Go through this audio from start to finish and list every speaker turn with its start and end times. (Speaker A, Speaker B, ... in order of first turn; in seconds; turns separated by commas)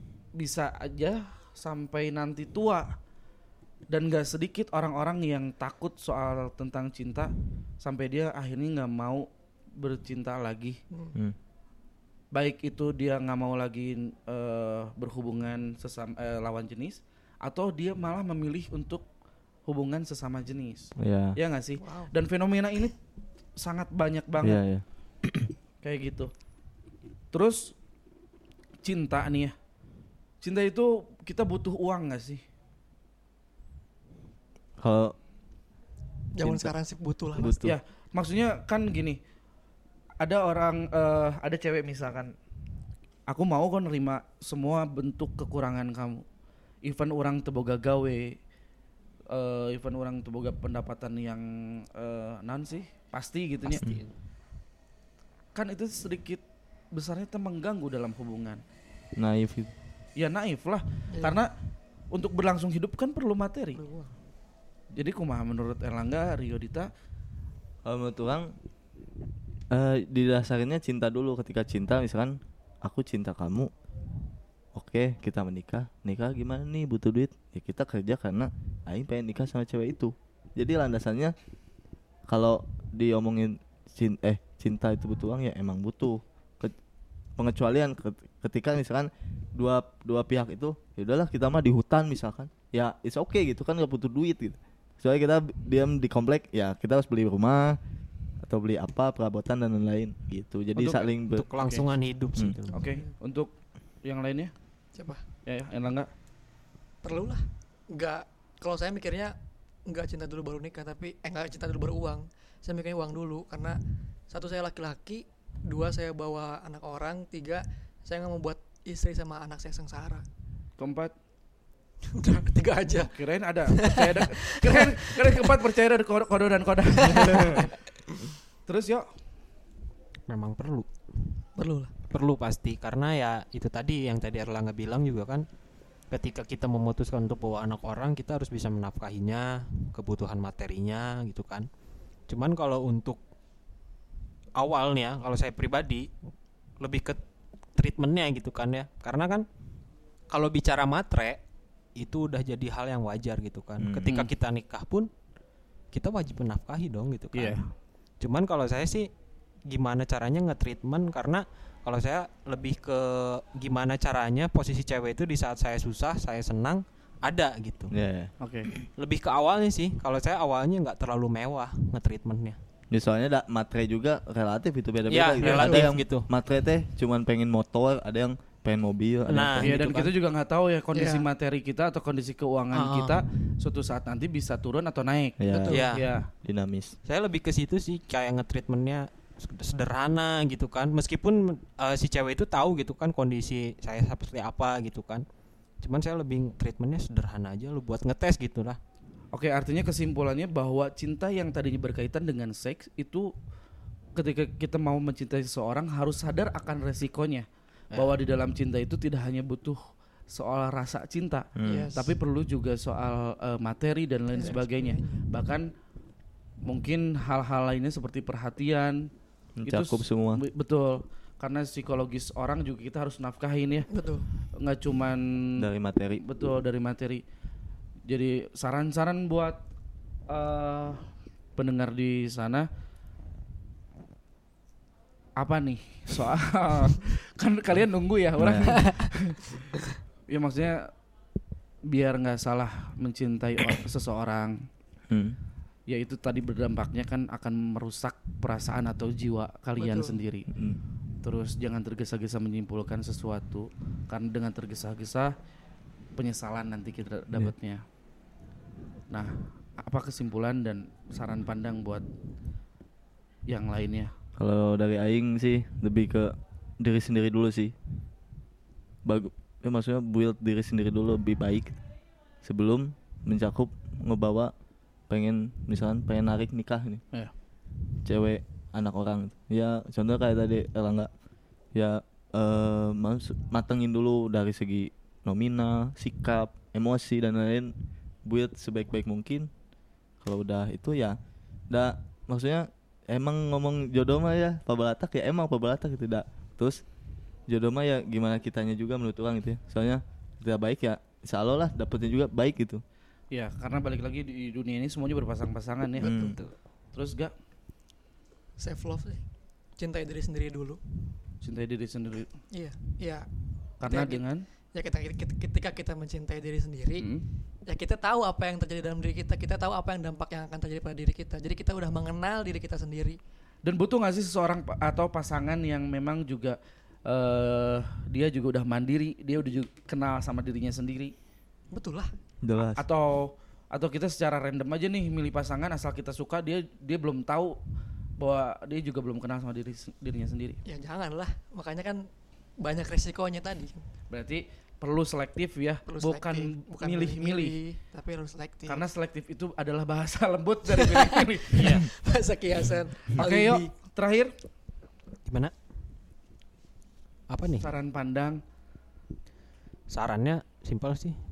Speaker A: 0.3-2.9, Speaker A: 3.9-10.8, Speaker A: 12.3-19.0, Speaker A: 19.7-22.9, Speaker B: 21.0-21.4, Speaker C: 21.8-22.1, Speaker A: 23.6-24.6, Speaker B: 24.4-25.5, Speaker A: 25.8-26.3, Speaker A: 27.3-27.7, Speaker A: 28.8-29.5, Speaker A: 30.4-32.4, Speaker B: 34.8-35.1, Speaker C: 36.3-37.6, Speaker B: 36.4-36.7, Speaker B: 37.4-37.8, Speaker A: 37.6-39.2, Speaker A: 40.2-42.3, Speaker A: 43.3-46.2, Speaker A: 46.8-48.4, Speaker A: 49.3-54.0, Speaker D: 53.7-54.0, Speaker A: 55.5-58.6, Speaker B: 59.1-59.7, Speaker A: 60.1-61.5, Speaker C: 61.1-61.4, Speaker A: 62.1-63.8, Speaker C: 63.8-64.1, Speaker A: 64.9-66.9, Speaker B: 67.8-68.5, Speaker B: 69.7-73.7, Speaker B: 74.7-81.3, Speaker B: 82.3-86.7, Speaker B: 87.4-97.8, Speaker B: 98.4-101.5, Speaker A: 100.8-101.1, Speaker D: 101.3-102.9, Speaker A: 101.6-101.9, Speaker A: 102.7-103.5, Speaker C: 102.8-103.0, Speaker A: 104.0-104.5, Speaker C: 105.0-105.2, Speaker A: 105.5-106.1, Speaker C: 107.0-109.3, Speaker C: 109.8-120.2, Speaker A: 120.8-121.1, Speaker C: 122.1-123.1, Speaker A: 122.9-127.7, Speaker C: 123.7-125.5, Speaker C: 126.9-128.2, Speaker A: 128.7-129.1, Speaker D: 130.3-131.3, Speaker C: 131.6-131.9, Speaker D: 132.1-135.5, Speaker D: 136.1-141.7, Speaker D: 142.3-143.2, Speaker D: 144.5-146.1, Speaker D: 146.8-147.2, Speaker D: 147.8-149.5, Speaker D: 150.3-151.4, Speaker D: 151.9-155.1, Speaker B: 153.8-154.1, Speaker A: 154.0-154.3, Speaker D: 155.9-157.6, Speaker A: 157.3-157.7, Speaker D: 158.2-159.1, Speaker D: 159.7-167.9, Speaker B: 167.9-168.8, Speaker A: 168.4-168.7, Speaker D: 169.0-172.6, Speaker B: 172.9-179.7, Speaker D: 175.1-176.3, Speaker C: 175.4-175.9, Speaker D: 179.3-180.1, Speaker A: 179.6-186.3, Speaker C: 180.9-181.3, Speaker D: 182.7-183.2, Speaker B: 185.4-185.8, Speaker C: 185.5-185.9, Speaker D: 185.7-186.1, Speaker B: 186.4-187.0, Speaker D: 187.1-195.2, Speaker D: 195.8-198.8, Speaker A: 199.3-203.3, Speaker A: 204.2-215.7, Speaker B: 211.6-211.9, Speaker C: 211.6-212.1, Speaker C: 214.3-215.2, Speaker A: 216.6-219.1, Speaker B: 219.6-220.4, Speaker A: 219.7-223.9, Speaker C: 223.9-224.2, Speaker A: 224.6-225.7, Speaker B: 225.6-226.2, Speaker A: 226.2-227.2, Speaker A: 228.1-229.6, Speaker A: 230.3-231.0, Speaker A: 231.6-232.7, Speaker A: 235.4-239.7, Speaker B: 238.4-238.7, Speaker C: 238.7-239.1, Speaker A: 240.3-240.9, Speaker A: 241.9-244.7, Speaker B: 245.1-245.4, Speaker A: 245.9-250.5, Speaker C: 249.8-250.2, Speaker B: 250.5-250.8, Speaker A: 251.2-255.3, Speaker A: 256.1-257.8, Speaker A: 259.1-262.1, Speaker A: 263.5-264.1, Speaker B: 264.4-267.7, Speaker B: 269.0-271.8, Speaker B: 272.4-274.5, Speaker B: 275.1-277.0, Speaker B: 278.0-281.1, Speaker B: 281.7-287.7, Speaker B: 288.2-289.5, Speaker B: 290.2-291.2, Speaker B: 291.7-296.8, Speaker B: 297.5-302.8, Speaker A: 303.3-306.1, Speaker B: 306.0-306.4, Speaker C: 306.0-306.3, Speaker A: 306.9-307.3, Speaker C: 308.6-309.2, Speaker C: 309.8-310.8, Speaker A: 311.4-312.3, Speaker C: 312.5-313.2, Speaker A: 313.8-314.4, Speaker C: 313.8-314.2, Speaker C: 314.7-317.1, Speaker A: 317.0-317.2, Speaker C: 317.7-323.2, Speaker A: 323.6-331.1, Speaker C: 331.7-332.1, Speaker B: 332.4-332.8, Speaker A: 332.8-337.6, Speaker A: 338.2-340.6, Speaker C: 340.6-342.1, Speaker C: 342.6-343.8, Speaker A: 344.1-347.6, Speaker C: 345.9-348.8, Speaker A: 348.7-351.7, Speaker C: 350.7-353.7, Speaker D: 351.5-351.9, Speaker A: 353.1-354.3, Speaker D: 355.2-355.5, Speaker D: 357.3-357.7, Speaker A: 357.6-358.4, Speaker D: 359.9-361.2